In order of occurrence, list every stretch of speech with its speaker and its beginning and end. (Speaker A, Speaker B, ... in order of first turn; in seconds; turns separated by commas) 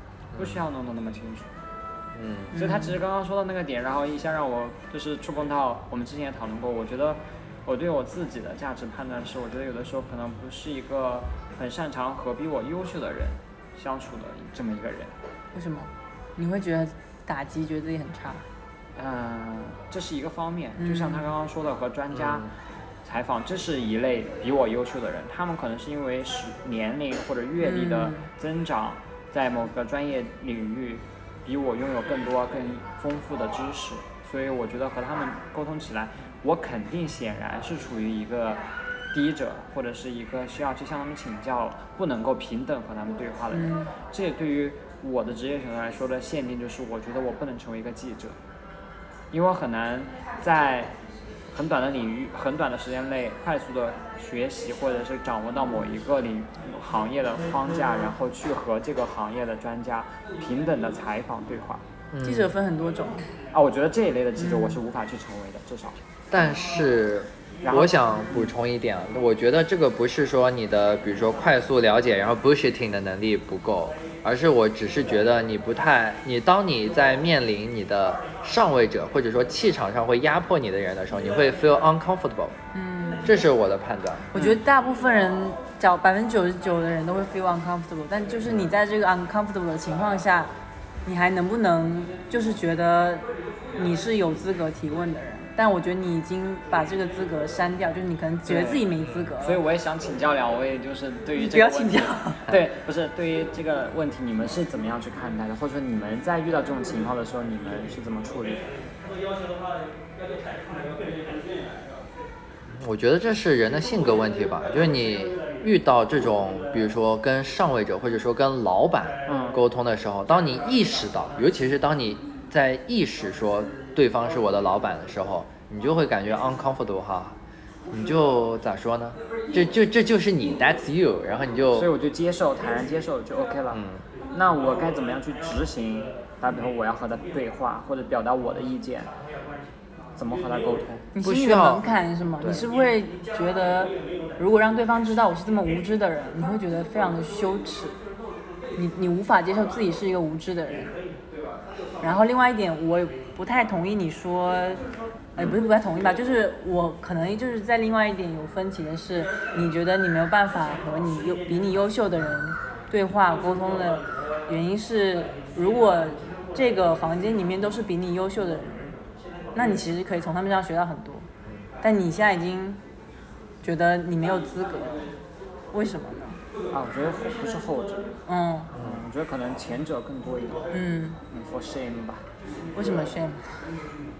Speaker A: 0.3-0.6, Speaker B: 0.3-1.5, Speaker A: 2.1-2.5, Speaker C: 2.5-3.0, Speaker B: 2.5-15.1, Speaker C: 15.5-18.4, Speaker B: 18.9-22.5, Speaker C: 20.8-21.3, Speaker A: 22.1-22.5, Speaker B: 23.0-48.4, Speaker C: 27.6-28.3, Speaker C: 43.5-43.9, Speaker B: 49.3-50.9, Speaker B: 51.5-61.8, Speaker A: 62.1-62.5, Speaker C: 62.2-63.3, Speaker B: 63.5-66.0, Speaker C: 64.4-64.8, Speaker A: 66.3-82.5, Speaker B: 67.6-68.5, Speaker C: 82.7-83.3, Speaker A: 83.2-84.3, Speaker C: 84.3-90.5, Speaker B: 84.3-84.6, Speaker C: 91.0-99.6, Speaker B: 98.5-98.9, Speaker A: 99.0-99.3, Speaker B: 99.4-108.7, Speaker C: 101.3-102.5, Speaker A: 112.8-127.4, Speaker B: 119.3-119.6, Speaker A: 127.9-131.9, Speaker B: 131.7-139.1, Speaker A: 133.7-134.0, Speaker B: 140.2-141.1, Speaker C: 141.1-148.0, Speaker A: 141.2-142.7, Speaker C: 148.7-150.9, Speaker C: 152.0-154.8, Speaker C: 155.3-168.9, Speaker C: 169.5-171.3, Speaker C: 171.8-172.8, Speaker C: 173.6-175.1, Speaker C: 175.7-176.4, Speaker B: 176.7-178.1, Speaker C: 178.2-178.7, Speaker B: 178.7-180.7, Speaker A: 178.7-179.0, Speaker C: 180.7-181.2, Speaker B: 181.3-182.2, Speaker C: 182.7-183.6